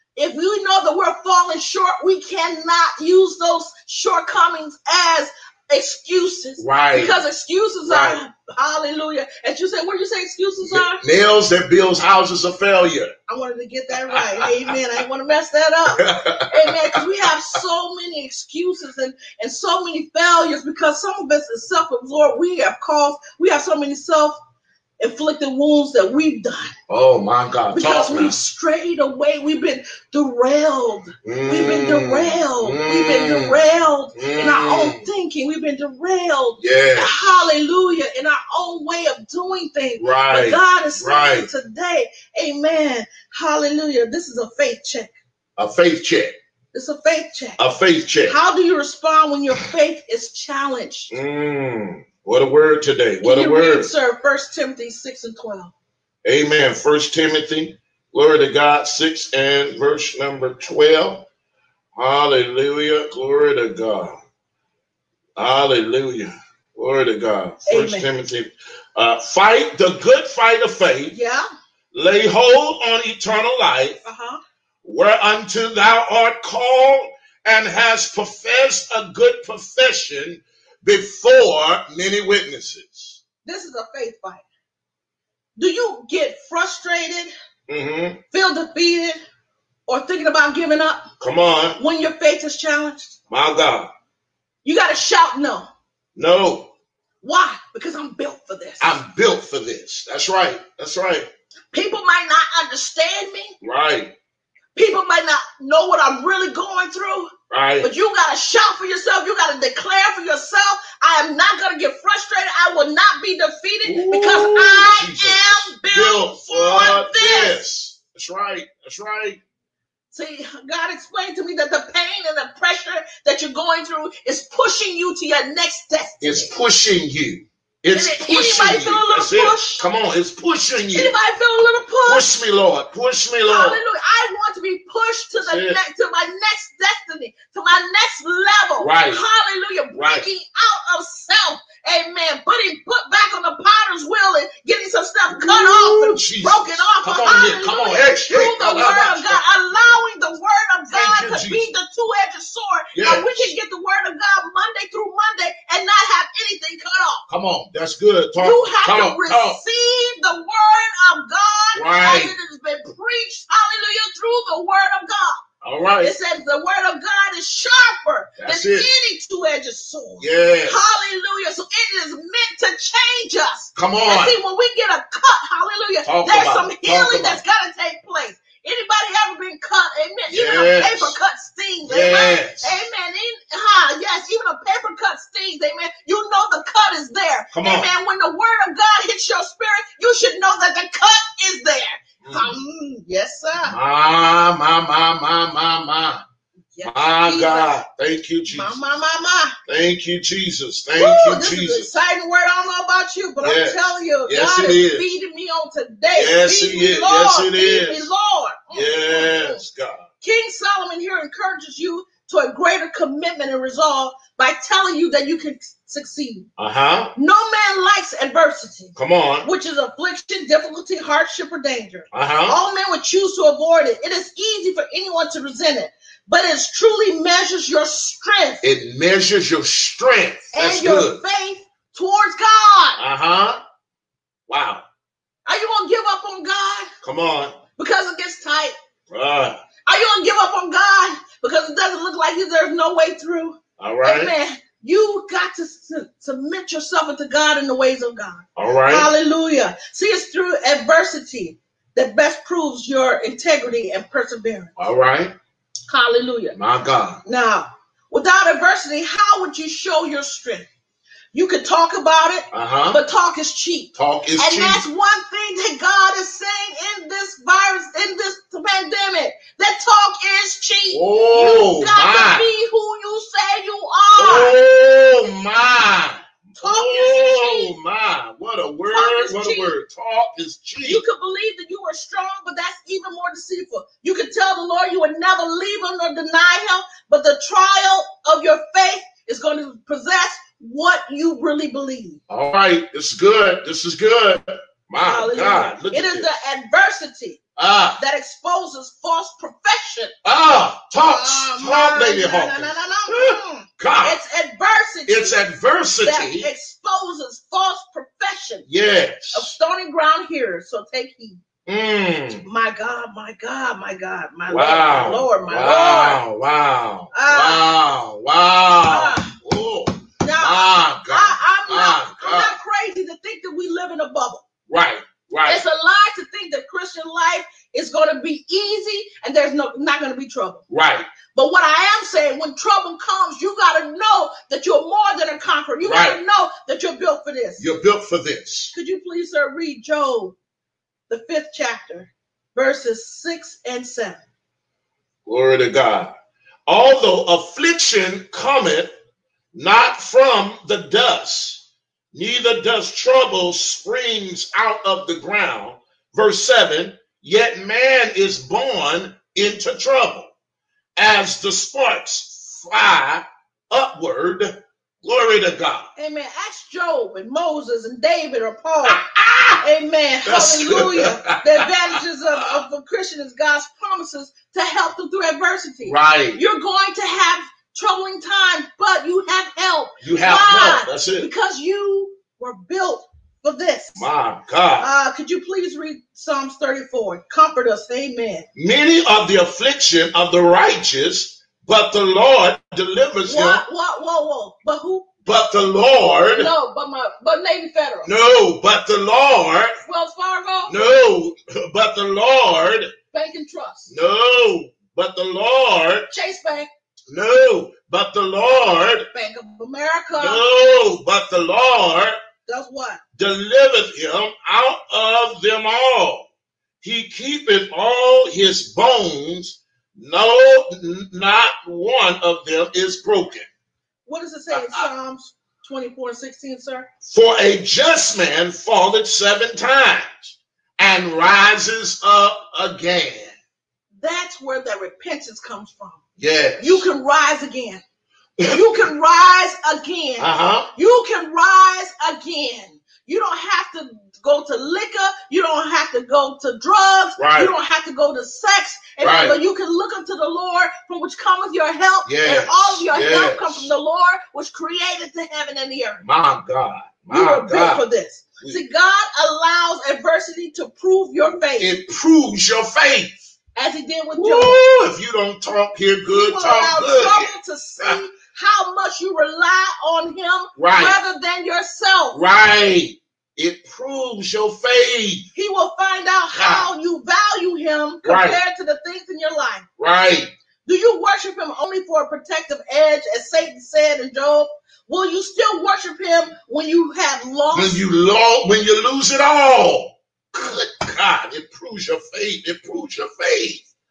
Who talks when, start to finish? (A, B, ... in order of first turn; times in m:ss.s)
0:00.2-0:11.0 A
0:06.6-0:07.2 B
0:07.9-0:08.2 B
0:10.6-0:13.1 B
0:13.3-0:24.4 A
0:14.1-0:14.8 B
0:15.9-0:17.6 B
0:25.0-0:26.8 A
0:26.9-0:28.4 B
0:27.7-0:45.1 A
0:31.2-0:33.6 B
0:34.2-0:35.0 B
0:36.6-0:37.5 B
0:40.0-0:41.5 B
0:45.6-0:46.4 B
0:46.7-0:47.6 A
0:47.6-0:48.4 B
0:48.2-0:51.1 A
0:51.1-0:53.9 B
0:53.2-0:55.7 A
0:56.2-1:01.3 B
1:02.0-1:04.2 B
1:05.4-1:11.2 B
1:07.7-1:08.1 A
1:11.1-1:11.4 A
1:11.9-1:14.0 B
1:14.0-1:14.4 A
1:14.8-1:23.2 B
1:23.4-1:24.4 A
1:25.6-1:27.3 A
1:27.7-1:28.2 B
1:28.3-1:29.2 A
1:29.9-1:31.1 A
1:31.2-1:31.8 B
1:31.8-1:33.2 A
1:33.3-1:33.9 B
1:34.6-1:35.7 A
1:36.2-1:36.7 B
1:37.2-1:39.0 A
1:38.8-1:41.3 B
1:41.7-1:43.6 A
1:43.6-1:44.1 B
1:44.8-1:57.6 A
1:47.5-1:47.9 B
1:53.8-1:59.4 B
2:00.1-2:06.5 A
2:06.2-2:11.1 B
2:07.9-2:09.9 A
2:11.0-2:12.3 A
2:12.1-2:13.8 B
2:13.5-2:37.3 A
2:15.4-2:15.8 B
2:18.8-2:19.2 B
2:19.9-2:20.3 B
2:25.3-2:29.4 B
2:30.9-2:31.7 B
2:32.9-2:33.5 B
2:37.3-2:39.6 B
2:38.4-2:45.4 A
2:41.8-2:42.3 B
2:45.6-2:46.2 B
2:46.0-3:13.8 A
2:48.4-2:48.9 B
2:50.2-2:50.8 B
2:53.8-2:54.4 B
2:56.0-2:57.4 B
3:00.3-3:01.2 B
3:01.8-3:02.7 B
3:07.5-3:07.9 B
3:12.2-3:12.5 B
3:13.6-3:16.2 B
3:16.7-3:17.8 A
3:16.8-3:18.8 B
3:18.5-3:19.6 A
3:19.7-3:21.9 B
3:21.0-3:29.6 A
3:23.4-3:25.1 B
3:26.1-3:28.1 B
3:28.7-3:30.1 B
3:30.2-3:36.5 A
3:36.6-3:37.1 B
3:37.2-3:48.6 A
3:39.0-3:39.5 B
3:42.1-3:42.6 B
3:48.6-3:51.2 B
3:50.5-3:53.0 A
3:53.0-3:53.6 B
3:54.5-3:54.8 B
3:55.5-3:56.9 A
3:57.0-3:57.6 B
3:57.8-3:58.8 A
3:59.1-3:59.6 B
3:59.9-4:14.7 A
4:03.8-4:04.3 B
4:08.6-4:09.1 B
4:14.8-4:15.3 B
4:15.9-4:16.6 A
4:16.6-4:17.2 B
4:17.2-4:20.7 A
4:21.3-4:34.5 A
4:22.5-4:23.0 B
4:24.0-4:24.8 B
4:30.9-4:32.5 B
4:34.2-4:41.0 B
4:36.6-4:37.7 A
4:38.9-4:39.7 A
4:40.8-4:52.2 A
4:52.3-4:56.4 B
4:55.0-4:57.4 A
4:57.6-4:58.0 B
4:58.0-5:00.2 A
5:00.2-5:04.2 B
5:01.0-5:05.4 A
5:05.1-5:06.5 B
5:06.0-5:08.7 A
5:08.7-5:09.5 B
5:09.3-5:11.4 A
5:11.7-5:12.4 B
5:12.4-5:16.2 A
5:14.5-5:22.6 B
5:17.1-5:17.7 A
5:18.9-5:19.3 A
5:20.2-5:24.4 A
5:24.7-5:25.6 B
5:25.5-5:30.6 A
5:30.7-5:31.1 B
5:31.3-5:37.6 A
5:35.8-5:36.2 B
5:37.6-5:38.7 B
5:38.7-5:40.4 A
5:41.1-5:44.2 A
5:45.3-5:46.1 B
5:46.7-5:48.9 B
5:49.5-6:00.3 B
6:01.0-6:05.9 B
6:06.0-6:09.0 A
6:08.9-6:09.6 B
6:09.6-6:24.1 A
6:10.2-6:12.6 B
6:15.8-6:16.4 B
6:20.0-6:21.3 B
6:24.0-6:24.9 B
6:24.8-6:28.5 A
6:28.6-6:33.6 B
6:33.2-6:35.1 A
6:35.3-6:36.5 B
6:36.3-6:38.1 A
6:38.0-6:39.8 B
6:39.8-6:40.8 A
6:40.7-6:42.9 B
6:43.1-6:43.9 A
6:43.9-6:46.1 B
6:46.1-6:46.7 A
6:47.1-6:49.1 B
6:49.1-6:50.4 A
6:50.2-6:52.2 B
6:52.5-6:53.0 A
6:53.2-6:56.3 B
6:56.8-7:03.5 B
7:04.1-7:06.9 A
7:04.5-7:04.9 B
7:07.1-7:13.4 B
7:14.0-7:16.0 A
7:16.2-7:16.9 B
7:16.6-7:17.8 A
7:18.4-7:36.0 A
7:20.2-7:20.7 B
7:27.2-7:27.5 B
7:29.0-7:29.4 B
7:32.1-7:33.7 B
7:36.0-7:37.8 B
7:37.1-7:41.7 A
7:41.6-7:43.2 B
7:43.6-7:44.7 A
7:44.2-7:48.0 B
7:46.1-7:52.2 A
7:50.6-7:51.0 B
7:52.1-7:55.3 B
7:55.4-7:59.7 A
7:56.3-7:56.7 B
7:58.0-7:58.4 B
7:59.8-8:00.3 B
8:00.7-8:07.8 A
8:07.5-8:13.7 B